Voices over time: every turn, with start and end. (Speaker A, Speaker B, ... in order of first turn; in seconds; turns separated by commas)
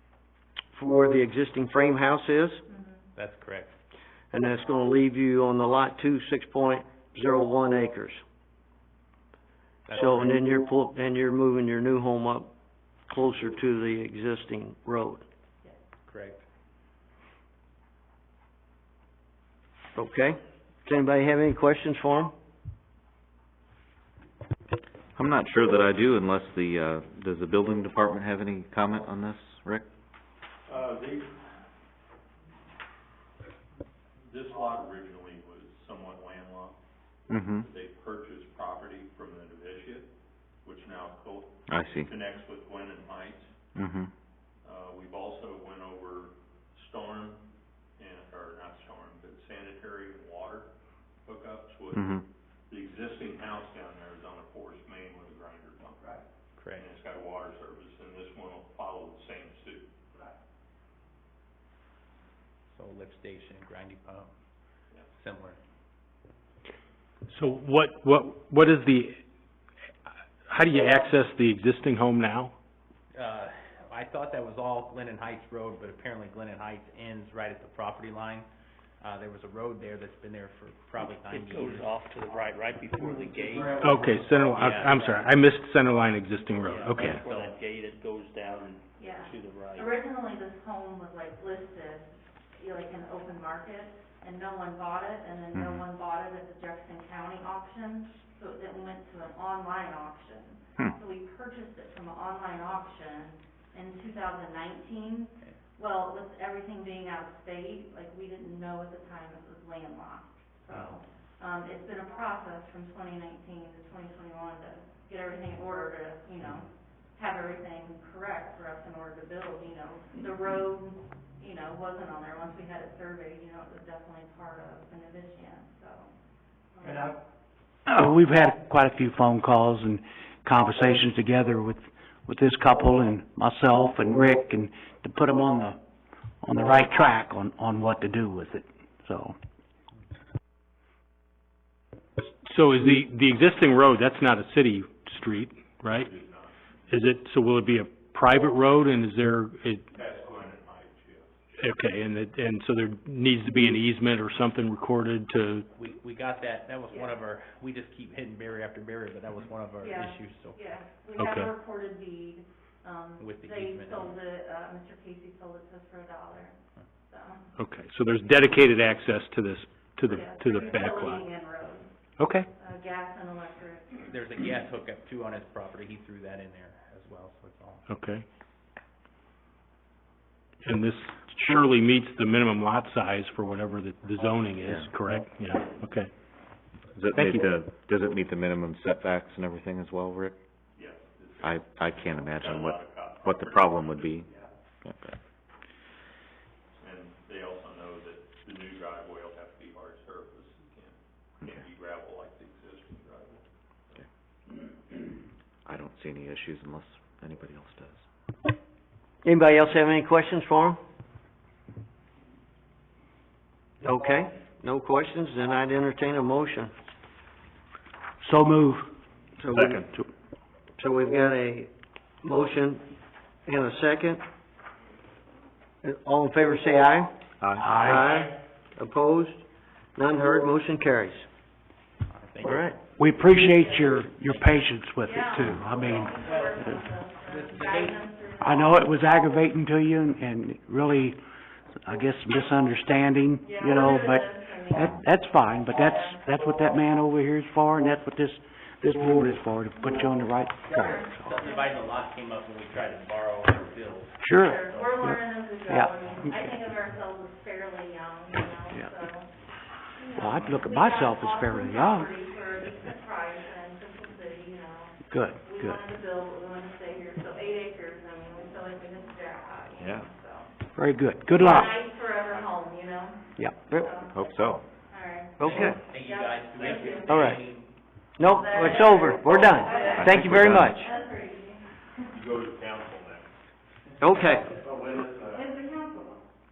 Speaker A: 0.8-2.6, Speaker B: 2.7-3.1, Speaker C: 3.2-3.7, Speaker A: 4.3-8.2, Speaker C: 9.9-10.4, Speaker A: 9.9-12.5, Speaker A: 13.1-15.2, Speaker C: 16.1-16.4, Speaker A: 19.9-22.3, Speaker D: 25.2-29.9, Speaker E: 30.7-31.3, Speaker E: 34.3-36.8, Speaker D: 37.3-37.7, Speaker E: 37.6-40.1, Speaker E: 40.6-43.5, Speaker D: 41.7-42.1, Speaker D: 43.8-44.1, Speaker E: 44.6-47.4, Speaker E: 48.0-50.7, Speaker E: 51.3-52.2, Speaker D: 51.9-52.2, Speaker E: 52.7-56.2, Speaker C: 56.6-56.9, Speaker E: 56.7-59.9, Speaker C: 62.7-64.3, Speaker C: 65.1-65.6, Speaker F: 67.3-69.2, Speaker F: 70.5-72.5, Speaker C: 73.1-78.5, Speaker C: 79.0-82.0, Speaker G: 81.0-84.7, Speaker C: 83.4-83.8, Speaker F: 83.8-87.2, Speaker C: 84.6-85.3, Speaker G: 86.5-89.9, Speaker C: 87.1-87.5, Speaker B: 89.0-126.1, Speaker D: 95.5-95.9, Speaker B: 126.8-127.1, Speaker H: 127.9-135.8, Speaker H: 136.4-139.4, Speaker F: 142.4-146.1, Speaker E: 145.9-146.6, Speaker F: 146.9-149.9, Speaker E: 149.9-151.3, Speaker F: 151.6-155.7, Speaker C: 155.7-160.6, Speaker B: 156.9-157.2, Speaker B: 159.8-166.6, Speaker F: 161.2-161.5, Speaker C: 163.2-164.2, Speaker B: 167.1-167.5, Speaker F: 167.6-171.2, Speaker B: 170.1-171.9, Speaker F: 172.2-172.5, Speaker B: 172.5-174.1, Speaker C: 174.1-177.8, Speaker F: 177.9-178.2, Speaker F: 180.6-186.1, Speaker D: 184.6-184.9, Speaker D: 186.9-190.4, Speaker F: 187.1-187.5, Speaker E: 190.8-191.6, Speaker D: 191.4-194.3, Speaker E: 192.2-194.5, Speaker D: 194.8-195.2, Speaker E: 196.8-203.5, Speaker D: 205.7-208.0, Speaker A: 209.2-210.8, Speaker A: 213.8-216.7, Speaker H: 218.2-218.9, Speaker A: 219.4-219.8, Speaker D: 219.5-219.9, Speaker A: 220.8-221.7, Speaker A: 222.2-222.8, Speaker A: 223.5-224.2, Speaker A: 225.8-229.4, Speaker D: 227.4-227.9, Speaker H: 227.6-228.1, Speaker A: 230.0-231.3, Speaker C: 232.1-232.8, Speaker A: 232.4-232.8, Speaker H: 233.0-236.8, Speaker B: 233.4-239.5, Speaker C: 236.2-236.7, Speaker C: 237.2-238.1, Speaker H: 238.4-241.2, Speaker H: 241.8-251.2, Speaker B: 243.4-244.9, Speaker B: 245.5-246.3, Speaker C: 250.7-255.0, Speaker B: 250.8-251.8, Speaker H: 254.2-256.6, Speaker B: 254.4-259.3, Speaker B: 259.9-270.5, Speaker H: 260.1-262.1, Speaker H: 265.1-265.8, Speaker D: 269.8-270.1, Speaker H: 270.8-271.8, Speaker B: 271.3-274.3, Speaker A: 273.6-273.9, Speaker D: 274.1-274.6, Speaker B: 274.9-277.3, Speaker A: 275.4-275.8, Speaker C: 275.4-277.7, Speaker A: 277.1-277.4, Speaker A: 278.2-280.9, Speaker B: 278.2-282.1, Speaker D: 279.9-280.8, Speaker E: 282.1-283.3, Speaker A: 284.0-284.5, Speaker E: 284.5-285.5, Speaker B: 285.2-286.2